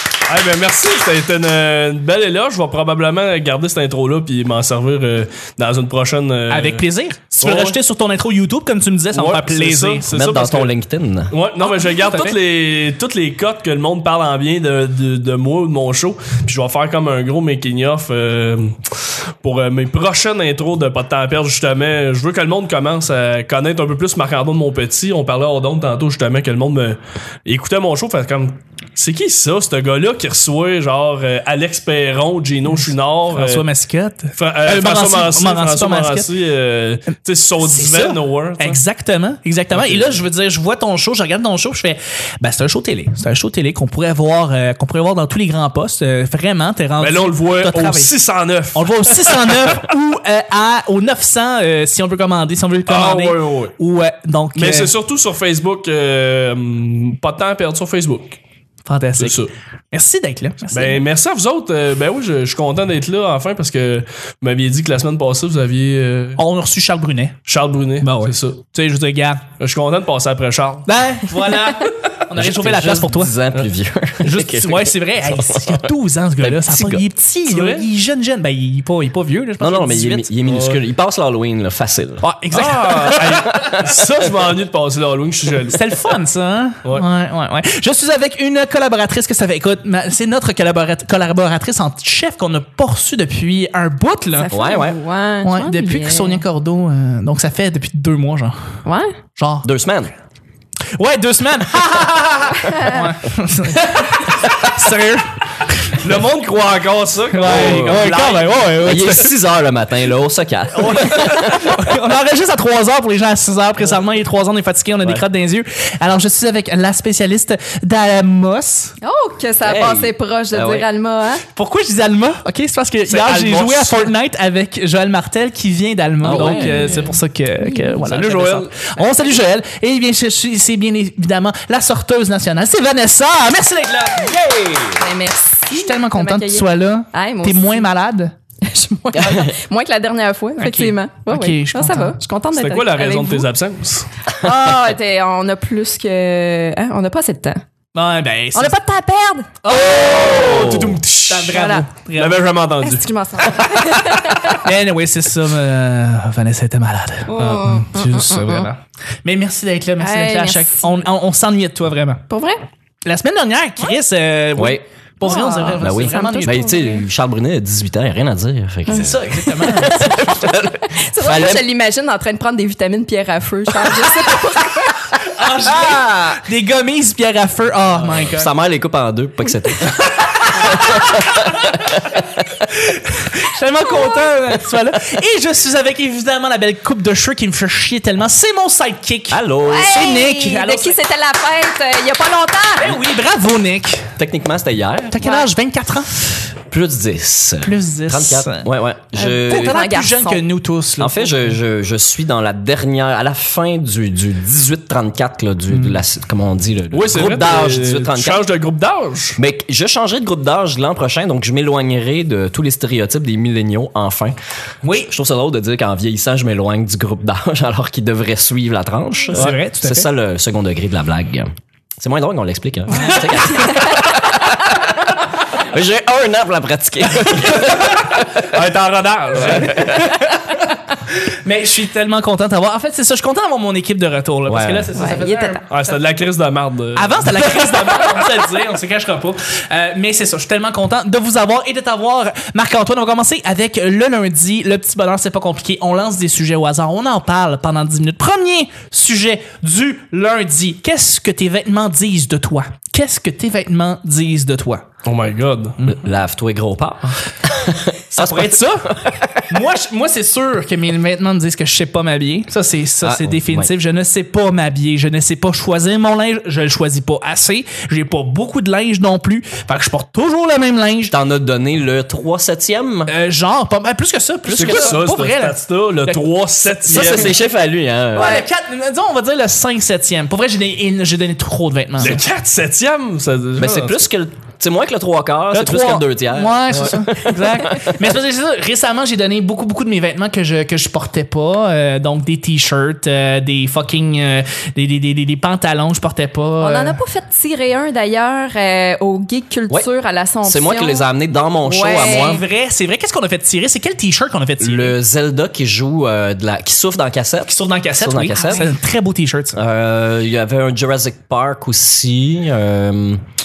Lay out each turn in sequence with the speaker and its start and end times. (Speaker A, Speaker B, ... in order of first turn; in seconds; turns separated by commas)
Speaker A: 0.2-6.8, Speaker B: 6.5-10.1, Speaker A: 7.4-7.8, Speaker A: 9.1-10.7, Speaker C: 10.1-11.3, Speaker A: 11.3-33.7, Speaker B: 11.6-12.4, Speaker B: 33.3-36.3, Speaker A: 34.4-38.8, Speaker B: 37.6-48.1, Speaker A: 39.7-40.2, Speaker A: 47.0-49.7, Speaker B: 48.7-54.9, Speaker A: 52.9-53.7, Speaker A: 54.5-58.4, Speaker B: 58.9-61.0, Speaker A: 59.2-59.5, Speaker A: 60.7-66.4, Speaker B: 66.3-67.4, Speaker A: 67.5-68.6, Speaker B: 68.0-69.4, Speaker A: 69.6-70.9, Speaker B: 70.8-73.3, Speaker C: 72.3-77.0, Speaker B: 74.2-80.3, Speaker A: 77.5-77.8, Speaker C: 79.6-82.2, Speaker A: 80.4-80.8, Speaker B: 82.2-83.4, Speaker A: 82.5-85.8, Speaker C: 83.4-84.0, Speaker B: 85.7-94.5, Speaker D: 94.4-96.4, Speaker C: 94.5-95.0, Speaker B: 95.4-98.8, Speaker D: 98.8-99.2, Speaker B: 99.4-99.7, Speaker C: 99.6-100.1, Speaker B: 100.9-106.0, Speaker D: 102.6-103.1, Speaker A: 106.0-108.9, Speaker B: 107.3-109.3, Speaker C: 107.4-108.2, Speaker C: 108.8-111.7, Speaker B: 110.8-118.9, Speaker D: 119.0-121.4, Speaker C: 119.6-120.8, Speaker B: 121.5-134.4, Speaker A: 123.1-124.1, Speaker C: 126.2-127.0, Speaker A: 126.3-126.9, Speaker D: 126.6-127.0, Speaker A: 128.0-128.7, Speaker C: 134.2-135.0, Speaker D: 135.0-137.8, Speaker B: 135.7-138.3, Speaker D: 138.6-143.5, Speaker C: 139.2-139.5, Speaker B: 140.6-142.2, Speaker A: 142.6-144.1, Speaker D: 144.4-147.6, Speaker B: 147.9-148.8, Speaker D: 148.5-149.5, Speaker B: 149.6-150.3, Speaker A: 149.7-154.2, Speaker C: 149.8-151.0, Speaker B: 151.3-152.5, Speaker D: 151.5-151.9, Speaker D: 152.8-154.7, Speaker B: 154.5-162.2, Speaker D: 157.3-158.7, Speaker A: 157.4-157.8, Speaker D: 160.0-160.9, Speaker D: 162.3-162.6, Speaker B: 163.0-166.8, Speaker C: 164.6-164.8, Speaker D: 165.2-167.0, Speaker C: 165.8-171.6, Speaker B: 168.9-170.4, Speaker D: 170.9-175.3, Speaker B: 175.3-178.5, Speaker C: 178.2-182.4, Speaker B: 180.6-181.5, Speaker B: 182.7-191.0, Speaker C: 189.3-190.1, Speaker D: 189.6-193.0, Speaker B: 192.8-194.1, Speaker C: 194.2-195.2, Speaker B: 195.1-196.5, Speaker D: 195.2-195.5, Speaker C: 196.7-199.8, Speaker B: 197.6-201.5, Speaker D: 199.3-200.4, Speaker C: 201.0-208.4, Speaker B: 205.7-206.0, Speaker A: 206.9-209.4, Speaker C: 209.3-214.4, Speaker B: 214.8-215.1, Speaker C: 214.9-228.3, Speaker B: 219.3-220.1, Speaker D: 223.0-223.9, Speaker A: 227.4-230.1, Speaker C: 229.4-230.0, Speaker B: 229.4-230.6, Speaker B: 231.2-235.9, Speaker C: 234.5-234.9, Speaker D: 234.9-235.6, Speaker A: 235.7-237.7, Speaker B: 236.9-254.8, Speaker A: 255.0-255.8, Speaker C: 255.8-259.5, Speaker B: 258.1-271.1, Speaker C: 263.0-263.7, Speaker C: 271.1-273.1, Speaker B: 273.1-276.2, Speaker A: 274.5-277.4, Speaker C: 274.5-275.0, Speaker C: 276.8-278.4, Speaker B: 276.9-277.3, Speaker B: 278.1-282.2, Speaker A: 282.0-284.1, Speaker C: 283.6-287.9, Speaker B: 285.5-297.0, Speaker D: 296.6-301.1, Speaker C: 300.4-302.4, Speaker D: 301.6-302.4, Speaker B: 302.0-304.9, Speaker C: 304.6-308.6, Speaker B: 307.5-309.6, Speaker C: 309.5-313.2